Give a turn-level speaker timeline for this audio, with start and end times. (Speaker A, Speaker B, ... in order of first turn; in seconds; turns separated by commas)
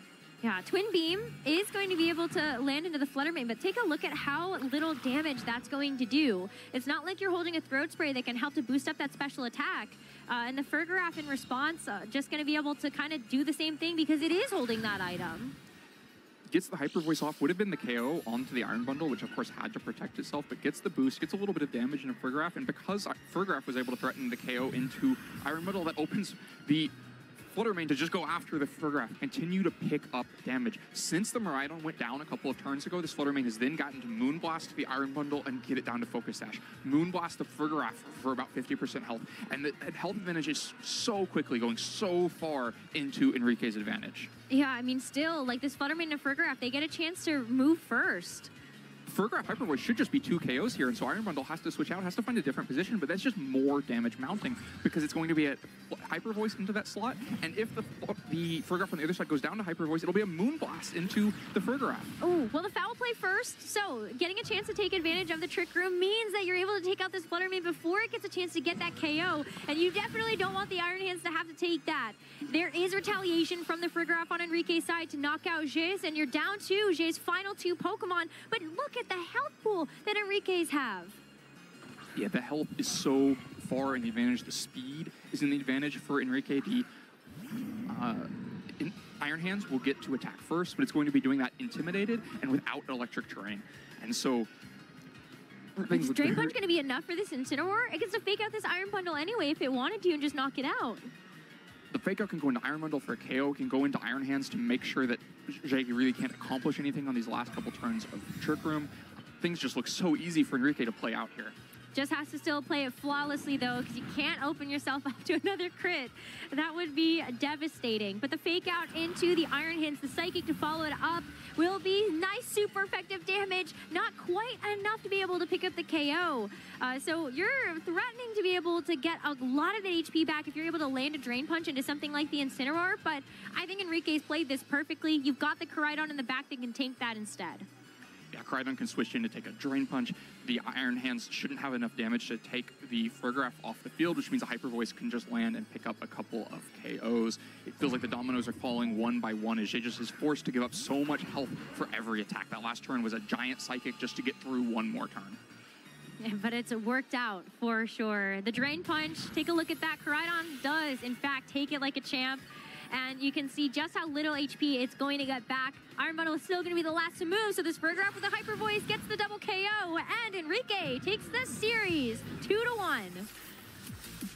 Speaker A: 0.4-15.5, Speaker B: 16.5-26.9, Speaker B: 27.4-44.3, Speaker A: 44.5-48.5, Speaker B: 49.1-62.1, Speaker A: 62.2-81.2, Speaker B: 82.2-86.8, Speaker B: 87.9-94.5, Speaker A: 95.8-101.1, Speaker B: 95.8-96.5, Speaker B: 101.9-111.5, Speaker A: 111.9-137.7, Speaker B: 138.3-155.4, Speaker A: 156.2-173.3